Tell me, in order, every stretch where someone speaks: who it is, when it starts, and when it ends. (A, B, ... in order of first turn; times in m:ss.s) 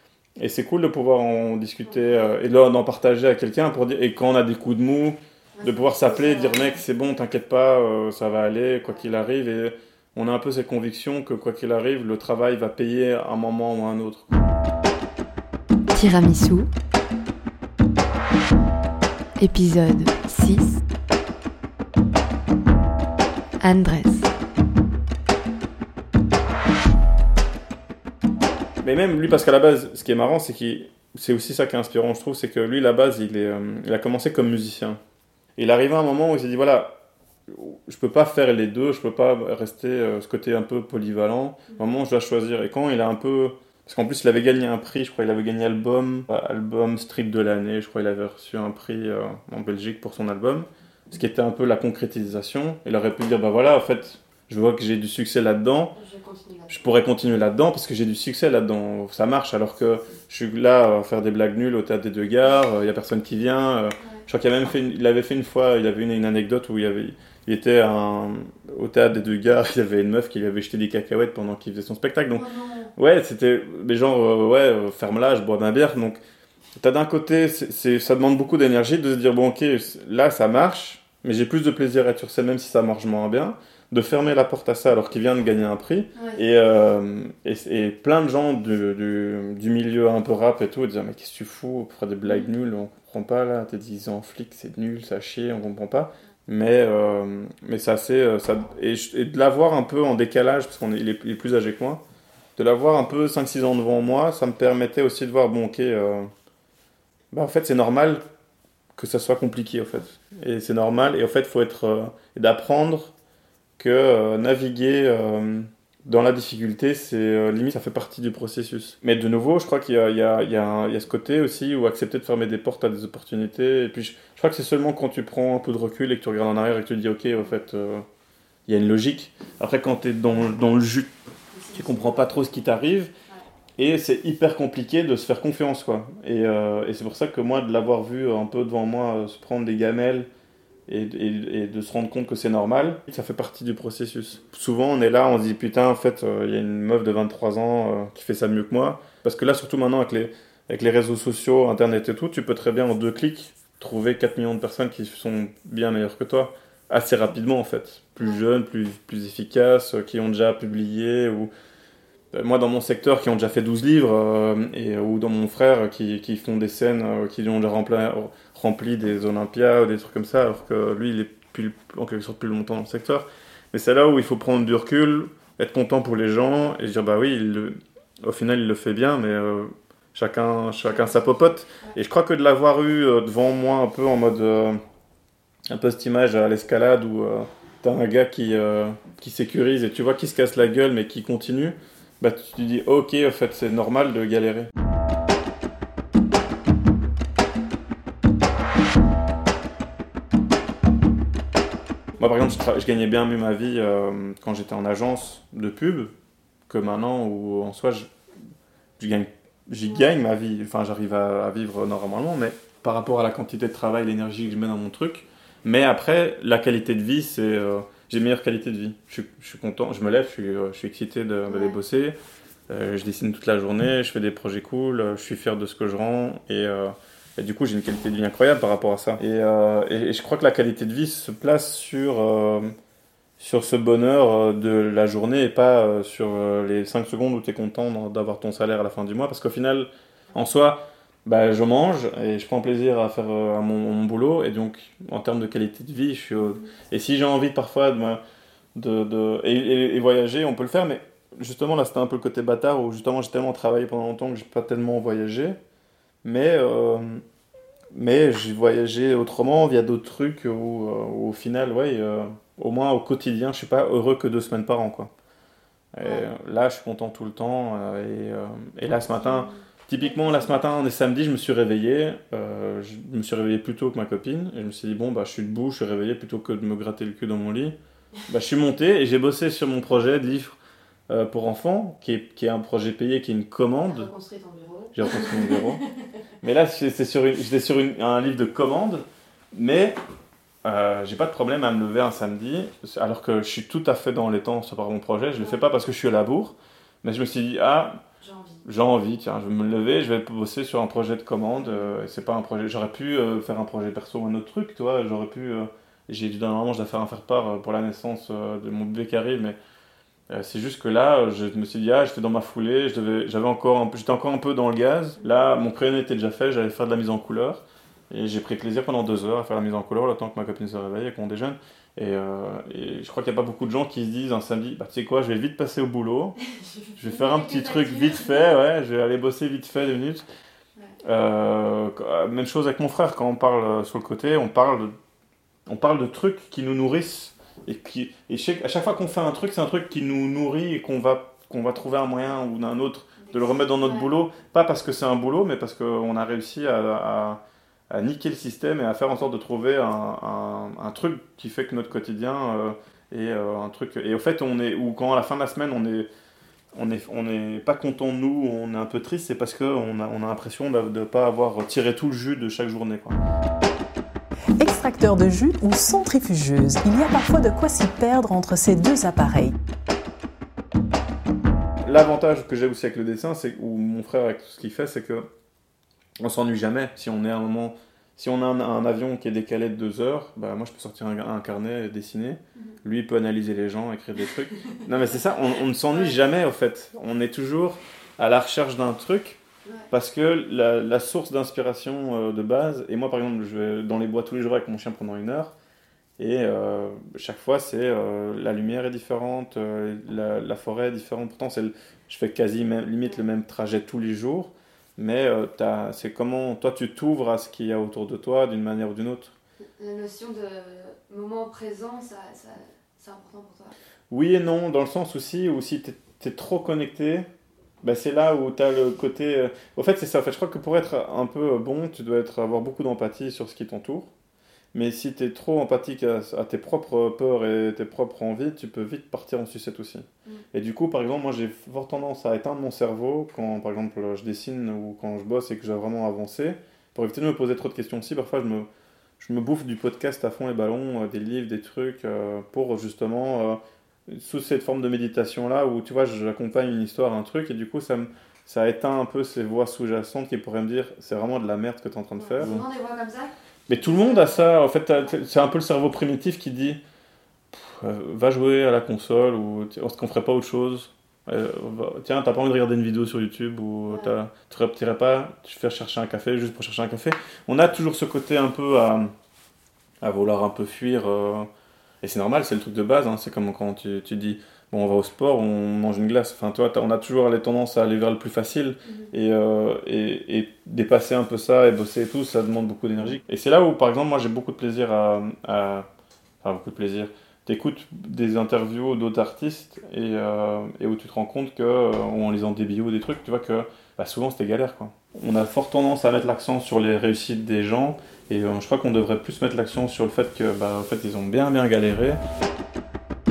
0:00.4-0:14.3 A
0:01.8-0:02.2 B
0:05.6-0:06.7 B
0:15.9-0:16.7 B
0:19.4-0:20.8 B
0:23.6-0:24.3 B
0:28.8-0:35.0 A
0:35.6-0:37.0 A
0:37.5-0:56.0 A
0:56.0-0:56.8 B
0:56.7-1:16.2 A
1:12.3-1:12.9 B
1:16.8-1:42.0 A
1:32.3-1:32.5 B
1:42.6-1:46.3 A
1:47.3-1:48.2 A
1:49.0-1:53.1 A
1:53.8-2:08.1 A
2:08.7-2:11.1 A
2:11.6-2:12.2 B
2:11.7-2:13.1 A
2:13.8-2:20.3 A
2:20.9-2:41.5 A
2:42.3-3:04.8 A
3:05.7-3:14.7 A
3:22.2-3:26.1 A
3:26.7-3:28.1 A
3:29.0-3:42.2 A
3:41.5-3:41.8 B
3:42.7-3:52.7 A
3:53.4-4:08.2 A
4:08.8-4:15.6 A
4:16.2-4:17.2 A
4:17.9-4:25.1 A
4:25.9-4:37.8 A
4:38.3-4:40.6 A
4:41.1-4:44.1 A
4:43.9-4:45.6 B
4:44.9-4:45.8 A
4:46.4-4:50.0 A
4:50.6-4:58.0 A
4:58.2-4:58.6 B
4:58.6-5:09.6 A
5:01.6-5:02.0 B
5:10.3-5:26.4 A
5:26.8-5:28.3 B
5:27.0-5:30.2 A
5:31.0-5:34.9 A
5:35.7-5:56.1 A
5:43.2-5:44.1 B
5:56.7-6:03.2 A
6:04.6-6:09.6 C
6:11.9-6:15.3 A
6:16.2-6:29.4 A
6:29.9-6:35.5 A
6:36.2-6:49.4 A
6:49.6-6:53.7 B
6:54.1-6:57.3 A
6:57.8-7:04.1 A
7:04.7-7:18.7 A
7:19.2-7:32.6 A
7:32.2-7:34.5 B
7:33.7-7:36.8 A
7:37.5-7:49.1 A
7:50.0-7:51.5 A
7:52.0-8:05.9 A
7:58.8-7:59.1 B
8:06.4-8:22.2 A